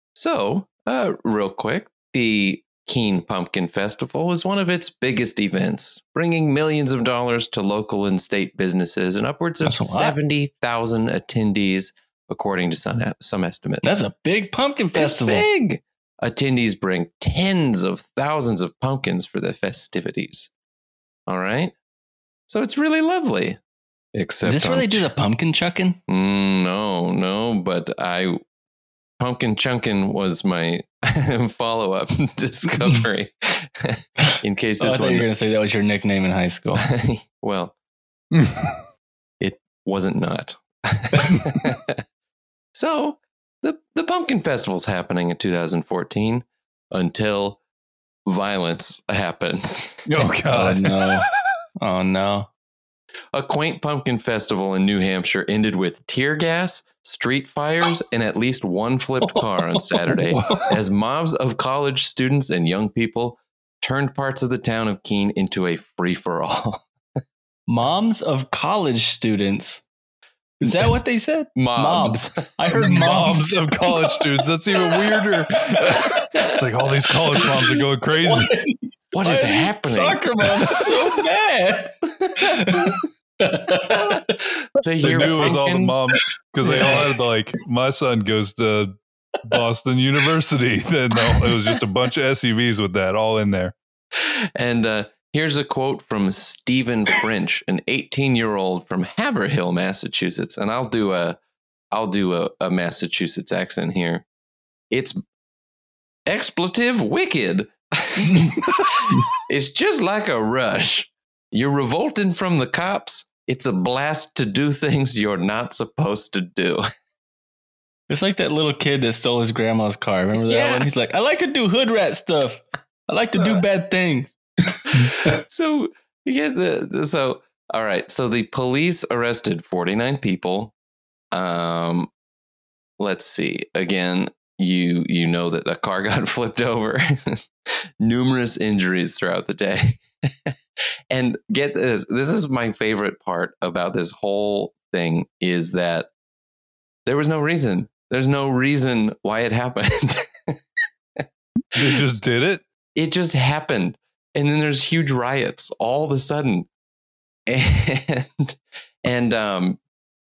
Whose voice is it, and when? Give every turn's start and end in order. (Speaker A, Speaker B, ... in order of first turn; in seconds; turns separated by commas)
Speaker A: 0.1-14.0, Speaker B: 9.6-10.2, Speaker B: 13.8-15.5, Speaker A: 14.9-20.5, Speaker A: 21.3-21.8, Speaker A: 22.5-23.6, Speaker A: 24.1-25.1, Speaker B: 24.4-26.0, Speaker A: 26.1-28.4, Speaker A: 29.2-35.3, Speaker B: 34.8-36.9, Speaker A: 36.8-37.8, Speaker C: 38.4-38.8, Speaker A: 39.4-42.0, Speaker A: 42.7-47.6, Speaker A: 48.3-50.1, Speaker C: 50.1-51.1, Speaker B: 50.5-51.3, Speaker B: 51.8-52.5, Speaker A: 53.3-66.8, Speaker B: 59.2-60.6, Speaker B: 67.7-69.8, Speaker B: 70.6-74.2, Speaker A: 71.6-72.4, Speaker C: 72.7-78.5, Speaker B: 74.8-76.5, Speaker B: 77.1-84.2, Speaker A: 79.1-81.0, Speaker A: 82.3-82.8, Speaker A: 84.8-86.0, Speaker C: 85.0-88.9, Speaker B: 85.1-85.5, Speaker B: 86.6-87.0, Speaker C: 89.5-93.8, Speaker B: 91.3-91.8, Speaker A: 94.2-101.4, Speaker A: 101.9-104.3, Speaker A: 104.9-105.2, Speaker A: 106.3-116.9, Speaker B: 118.1-125.4, Speaker A: 120.4-120.9, Speaker A: 125.1-130.7, Speaker A: 131.3-132.1, Speaker A: 133.0-140.6, Speaker A: 141.1-146.1, Speaker A: 147.1-150.6, Speaker C: 151.8-152.6, Speaker A: 151.9-152.2, Speaker A: 152.9-156.7, Speaker A: 157.5-159.8